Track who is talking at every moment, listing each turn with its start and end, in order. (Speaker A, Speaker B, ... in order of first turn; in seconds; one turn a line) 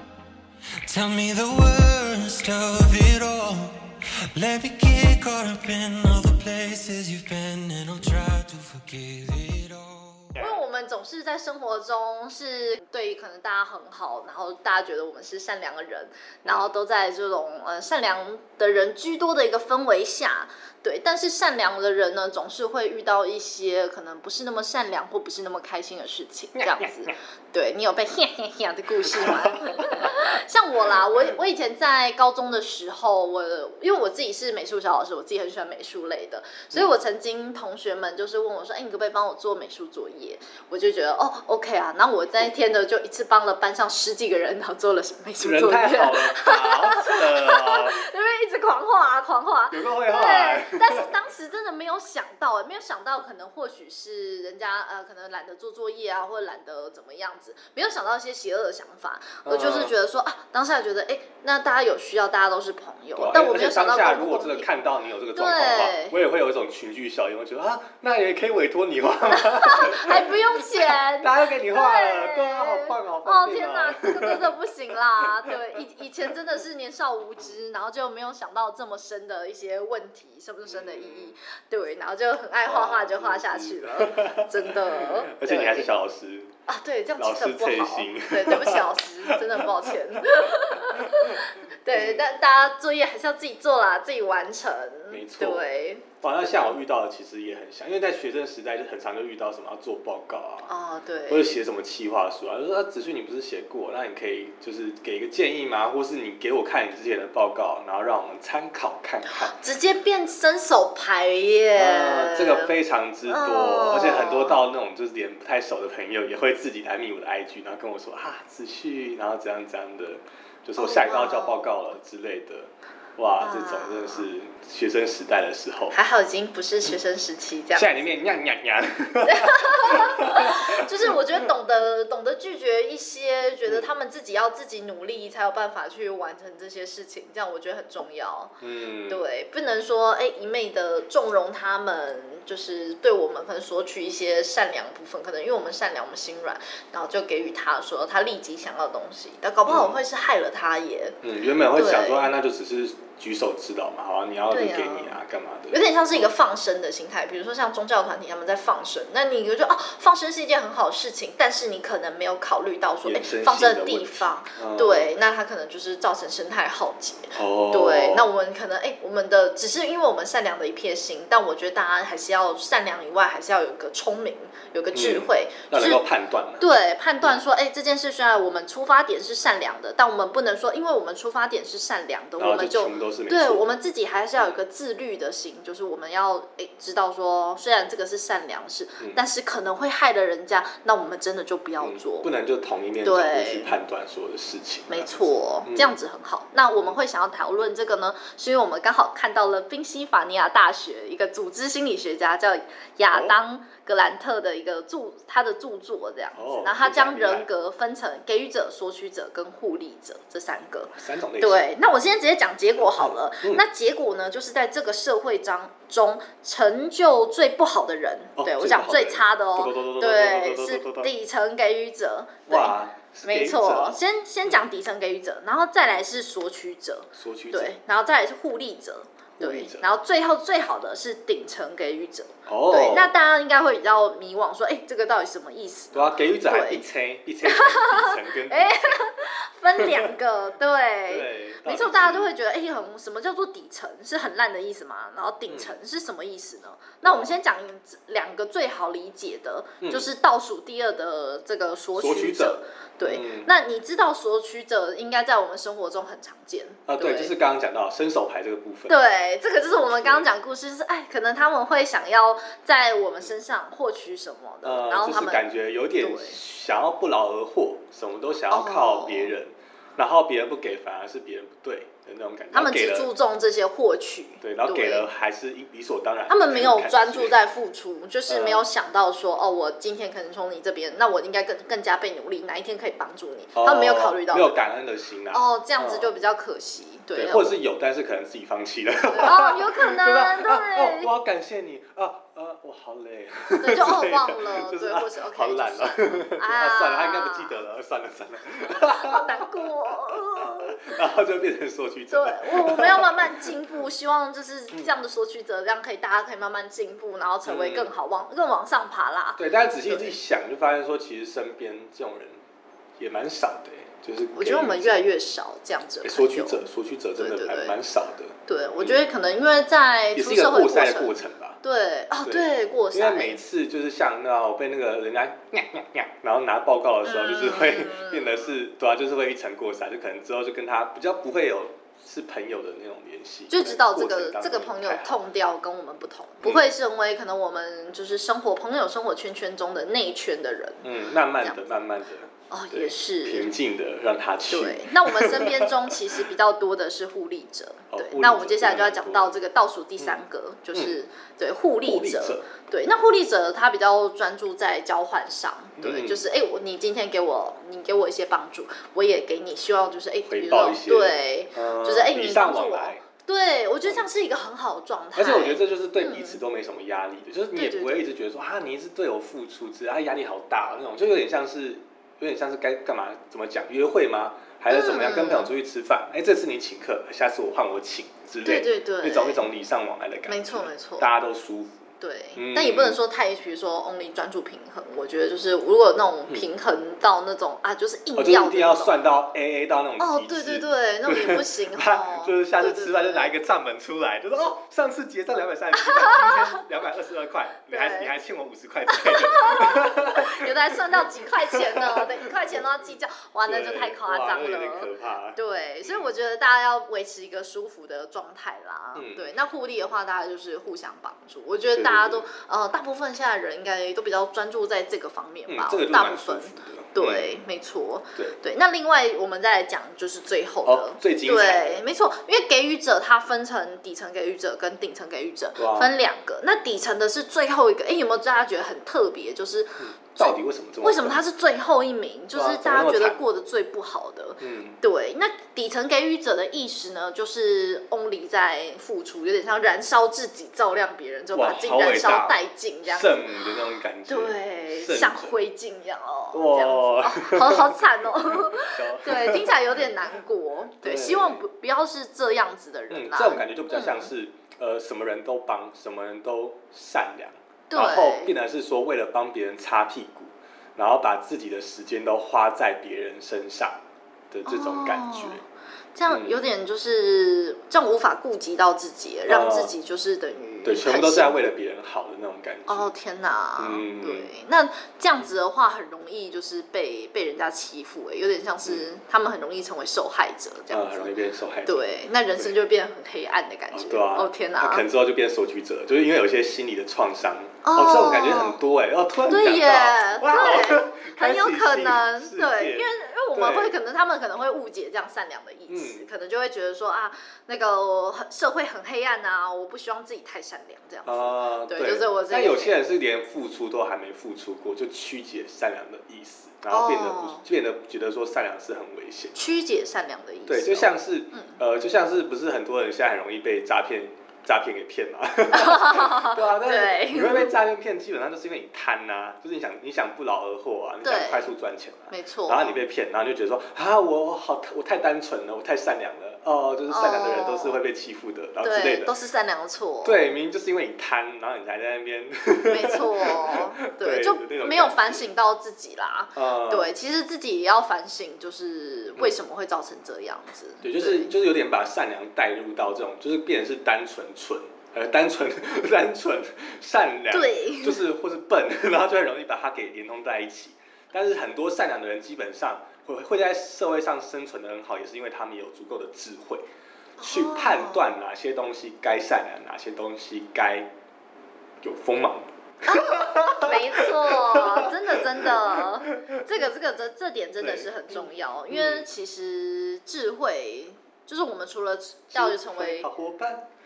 Speaker A: 0.8-10.3
Speaker B: 10.4-64.7
Speaker C: 26.6-27.1
Speaker C: 29.1-30.1
Speaker C: 45.4-48.0
Speaker C: 49.7-51.2
Speaker C: 59.4-59.9
Speaker C: 63.1-74.5
Speaker B: 65.3-66.2
Speaker B: 69.3-86.0
Speaker C: 75.2-75.8
Speaker C: 80.7-81.3
Speaker C: 82.6-86.5
Speaker B: 86.7-96.8
Speaker C: 87.2-92.2
Speaker C: 95.1-95.7
Speaker C: 96.2-100.7
Speaker B: 100.7-101.5
Speaker C: 101.3-109.5
Speaker B: 109.4-112.7
Speaker C: 111.8-126.0
Speaker B: 113.2-114.6
Speaker B: 120.8-121.8
Speaker B: 123.4-124.3
Speaker B: 125.9-128.1
Speaker C: 127.7-130.9
Speaker B: 129.3-138.6
Speaker C: 138.6-139.2
Speaker B: 139.1-151.2
Speaker C: 149.7-149.9
Speaker C: 151.2-156.3
Speaker B: 151.7-152.3
Speaker B: 154.5-155.2
Speaker B: 155.7-176.0
Speaker C: 163.0-165.1
Speaker C: 167.3-168.3
Speaker C: 174.9-177.3
Speaker B: 176.6-192.3
Speaker C: 182.4-183.7
Speaker C: 191.8-195.9
Speaker B: 193.0-193.8
Speaker B: 194.9-236.8
Speaker C: 206.3-207.5
Speaker C: 210.9-211.6
Speaker C: 212.8-213.6
Speaker C: 218.4-221.1
Speaker C: 222.5-224.0
Speaker C: 227.2-227.7
Speaker C: 229.4-229.9
Speaker C: 232.5-233.2
Speaker C: 235.9-239.0
Speaker B: 237.4-257.3
Speaker C: 239.8-240.1
Speaker C: 241.1-242.3
Speaker C: 245.5-245.8
Speaker C: 247.0-247.4
Speaker C: 252.0-253.5
Speaker C: 256.9-259.0
Speaker B: 258.9-265.4
Speaker C: 259.9-260.3
Speaker C: 264.6-273.1
Speaker B: 266.0-266.4
Speaker B: 268.5-269.3
Speaker B: 272.5-275.1
Speaker C: 274.4-277.4
Speaker B: 276.3-284.6
Speaker C: 278.3-278.6
Speaker C: 283.5-286.1
Speaker B: 285.3-287.5
Speaker C: 287.1-303.6
Speaker B: 289.1-291.1
Speaker B: 293.6-297.6
Speaker B: 298.6-301.0
Speaker B: 302.1-310.1
Speaker C: 307.4-307.9
Speaker C: 309.4-312.4
Speaker C: 313.0-315.0
Speaker B: 314.3-317.8
Speaker C: 316.0-319.0
Speaker B: 318.5-323.4
Speaker C: 320.1-321.6
Speaker C: 322.2-335.1
Speaker B: 327.0-328.5
Speaker B: 333.5-340.9
Speaker C: 340.8-346.2
Speaker B: 342.5-343.5
Speaker B: 344.5-366.4
Speaker C: 347.9-349.4
Speaker C: 351.8-352.5
Speaker C: 355.8-356.2
Speaker C: 360.3-363.0
Speaker C: 365.1-383.0
Speaker B: 367.5-368.0
Speaker B: 374.7-375.5
Speaker B: 378.4-379.4
Speaker B: 380.3-381.1
Speaker B: 382.0-389.0
Speaker C: 388.1-402.6
Speaker B: 390.0-393.3
Speaker B: 396.1-396.3
Speaker B: 397.7-398.1
Speaker B: 398.9-443.3
Speaker C: 403.4-406.1
Speaker C: 408.9-409.3
Speaker C: 411.7-412.3
Speaker C: 415.5-417.4
Speaker C: 420.6-421.8
Speaker C: 425.6-425.9
Speaker C: 429.8-431.2
Speaker C: 432.3-433.2
Speaker C: 434.4-434.8
Speaker C: 441.3-445.3
Speaker B: 444.1-454.1
Speaker C: 446.3-449.9
Speaker C: 450.8-451.4
Speaker C: 452.9-463.8
Speaker B: 457.7-458.3
Speaker C: 464.3-465.4
Speaker B: 464.4-465.4
Speaker B: 465.9-471.4
Speaker C: 466.1-466.4
Speaker C: 469.3-469.7
Speaker C: 470.6-472.9
Speaker B: 472.7-481.1
Speaker C: 473.6-474.3
Speaker C: 480.7-482.6
Speaker B: 481.6-484.9
Speaker C: 483.7-493.7
Speaker B: 487.6-488.6
Speaker B: 489.2-502.8
Speaker C: 495.7-496.0
Speaker C: 501.0-509.4
Speaker B: 506.7-507.4
Speaker B: 509.3-511.6
Speaker C: 510.5-529.1
Speaker B: 515.5-517.5
Speaker B: 521.0-521.5
Speaker B: 522.1-522.8
Speaker B: 526.9-527.8
Speaker B: 528.6-530.2
Speaker C: 530.0-535.3
Speaker B: 532.7-541.3
Speaker C: 536.3-536.9
Speaker C: 540.8-556.6
Speaker B: 547.3-548.0
Speaker B: 557.2-558.0
Speaker C: 557.2-560.9
Speaker C: 561.8-566.4
Speaker B: 562.8-573.1
Speaker C: 567.6-569.1
Speaker C: 572.3-573.7